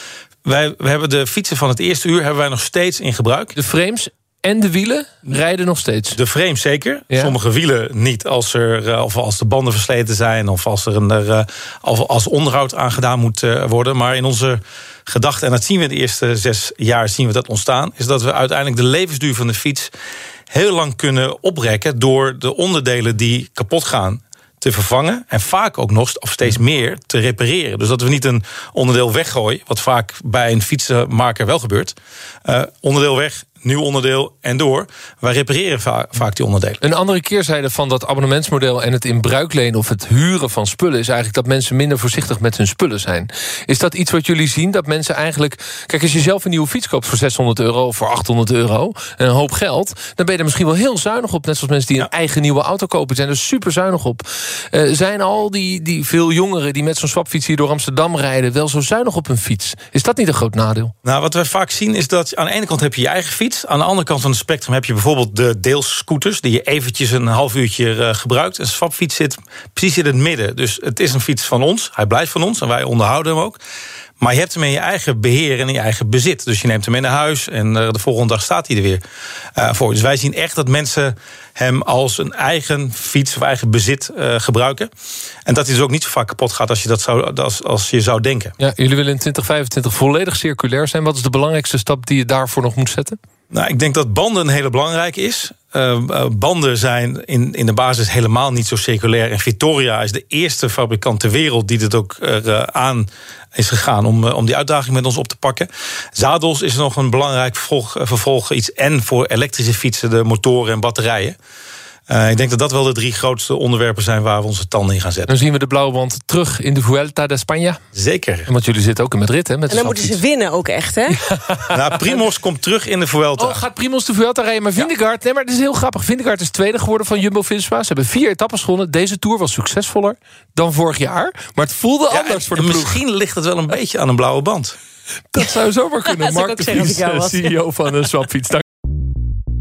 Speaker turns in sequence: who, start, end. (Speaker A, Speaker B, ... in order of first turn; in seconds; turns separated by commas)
Speaker A: 0.5-3.5, Speaker B: 3.6-6.2, Speaker A: 6.1-19.9, Speaker B: 7.1-7.4, Speaker A: 20.5-31.9, Speaker A: 32.5-36.8, Speaker B: 36.8-60.9, Speaker A: 61.0-73.6, Speaker A: 74.2-79.0, Speaker A: 79.6-84.9, Speaker A: 85.5-88.5, Speaker B: 88.6-93.2, Speaker A: 93.5-111.4, Speaker A: 112.1-115.3, Speaker B: 115.3-117.8, Speaker A: 117.9-118.5, Speaker B: 118.5-120.2, Speaker C: 119.7-121.2, Speaker B: 121.3-122.0, Speaker A: 121.7-123.6, Speaker B: 123.4-133.0, Speaker A: 132.1-134.8, Speaker B: 135.3-138.6, Speaker C: 136.1-137.5